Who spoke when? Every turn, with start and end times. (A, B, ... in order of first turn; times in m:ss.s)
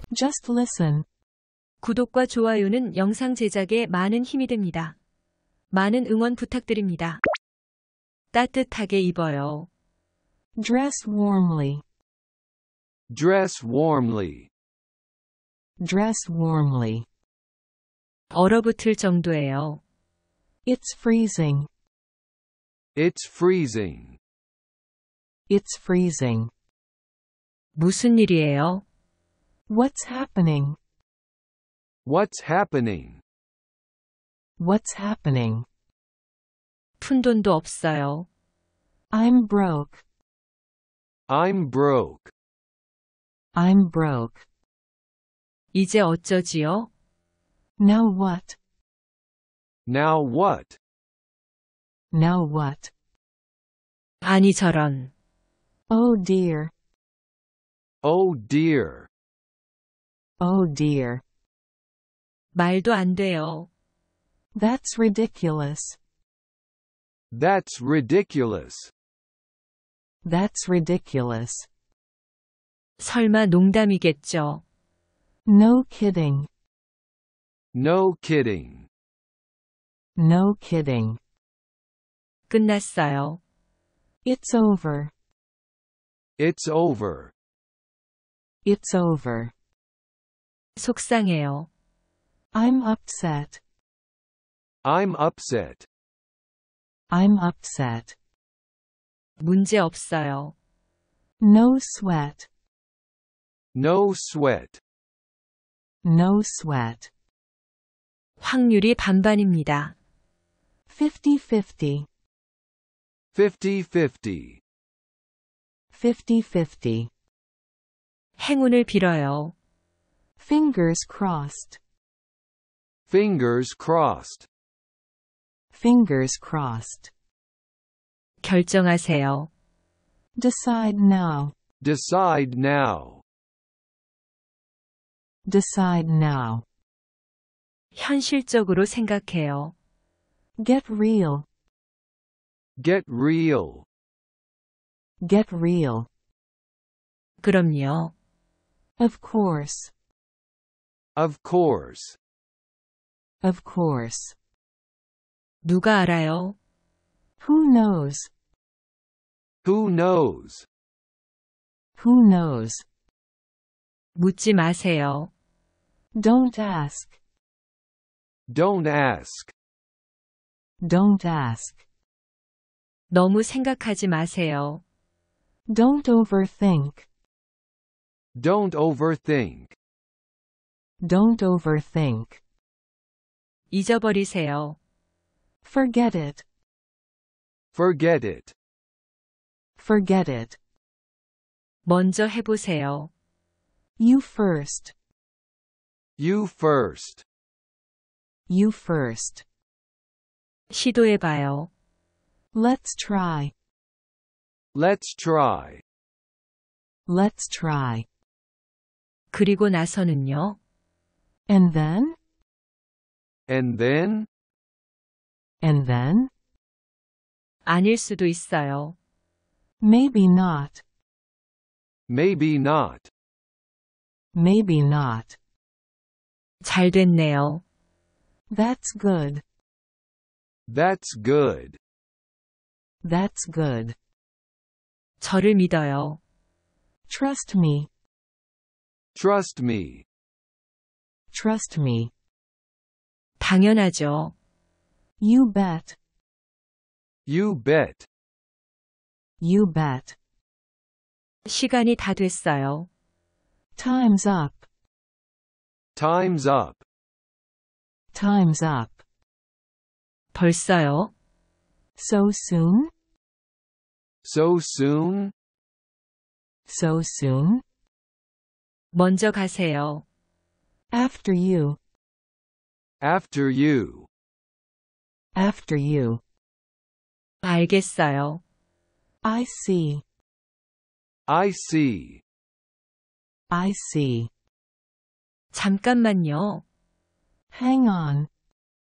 0:00.1-0:01.0 A
0:01.8-0:05.0 B
0:05.7-0:07.2 B
0:08.3-0:09.7 B
0:10.6-0:11.8 A
0:13.1-0:14.5 C
0:15.8-0:17.0 A
0:18.3-0:19.8 B
0:20.6-0:21.7 A
0:22.9-0:24.2 C
0:25.5-0:26.5 A
0:27.8-0:28.8 B
0:29.7-0:30.8 A
0:32.0-0:33.2 C
0:34.6-0:35.6 A
0:37.0-0:38.3 B
0:39.1-0:40.0 A
0:41.3-0:42.3 C
0:43.5-0:44.4 A
0:45.7-0:46.9 B
0:47.8-0:48.6 A
0:49.9-0:50.8 C
0:52.1-0:52.9 A
0:54.2-0:55.1 B
0:55.9-0:56.7 A
0:58.0-0:59.1 C
1:00.4-1:01.2 A
1:02.5-1:03.7 B
1:04.5-1:06.0 A
1:07.3-1:08.9 C
1:10.2-1:11.7 A
1:13.0-1:14.6 B
1:15.4-1:16.5 A
1:17.7-1:18.9 C
1:20.2-1:21.2 A
1:22.5-1:23.4 B
1:24.2-1:25.1 A
1:26.4-1:27.3 C
1:28.6-1:29.5 A
1:30.8-1:31.7 B
1:32.5-1:33.6 A
1:34.8-1:35.9 C
1:37.1-1:38.2 A
1:39.4-1:40.5 B
1:41.4-1:42.5 A
1:43.7-1:44.8 C
1:46.0-1:47.1 A
1:48.4-1:49.9 B
1:50.9-1:52.1 A
1:53.3-1:54.6 C
1:55.9-1:57.1 A
1:58.4-1:59.5 B
2:00.4-2:01.8 A
2:03.1-2:04.5 C
2:05.7-2:07.1 A
2:08.4-2:09.5 B
2:10.4-2:11.5 A
2:11.8-2:13.2 C
2:15.5-2:16.6 A
2:17.9-2:19.7 B
2:20.6-2:21.5 A
2:22.8-2:23.8 C
2:25.2-2:26.1 A
2:27.4-2:28.1 B
2:29.0-2:29.9 A
2:31.2-2:32.2 C
2:33.4-2:34.3 A
2:35.6-2:36.6 B
2:37.4-2:38.3 A
2:39.6-2:40.6 C
2:42.0-2:42.8 A
2:44.2-2:45.3 B
2:46.2-2:47.1 A
2:48.5-2:49.5 C
2:50.8-2:51.8 A
2:53.1-2:54.8 B
2:55.7-2:57.1 A
2:58.4-2:59.7 C
3:01.0-3:02.4 A
3:03.7-3:04.8 B
3:05.6-3:06.4 A
3:07.7-3:08.5 C
3:09.8-3:10.6 A
3:11.8-3:13.1 B
3:14.0-3:14.9 A
3:16.2-3:17.2 C
3:18.5-3:19.4 A
3:20.7-3:21.7 B
3:22.5-3:23.5 A
3:24.7-3:25.8 C
3:27.1-3:28.1 A
3:29.3-3:30.6 B
3:31.5-3:32.2 A
3:33.5-3:34.3 C
3:35.6-3:36.3 A
3:37.6-3:39.0 B
3:39.8-3:40.8 A
3:42.1-3:43.1 C
3:44.3-3:45.4 A
3:46.6-3:47.6 B
3:48.5-3:49.4 A
3:50.7-3:51.8 C
3:53.0-3:54.0 A
3:55.2-3:56.2 B
3:57.1-3:57.9 A
3:59.1-4:00.0 C
4:01.3-4:02.1 A
4:03.4-4:04.3 B
4:05.2-4:06.0 A
4:07.3-4:08.1 C
4:09.4-4:10.2 A
4:11.4-4:12.9 B
4:13.8-4:14.6 A
4:16.0-4:16.8 C
4:18.1-4:19.0 A
4:20.3-4:21.1 B
4:22.0-4:22.9 A
4:24.2-4:25.3 C
4:26.7-4:27.6 A
4:28.9-4:30.0 B
4:30.9-4:31.8 A
4:33.0-4:34.1 C
4:35.3-4:36.2 A
4:37.4-4:38.4 B
4:39.2-4:40.0 A
4:41.3-4:42.2 C
4:43.5-4:44.3 A
4:45.5-4:46.6 B
4:47.5-4:48.3 A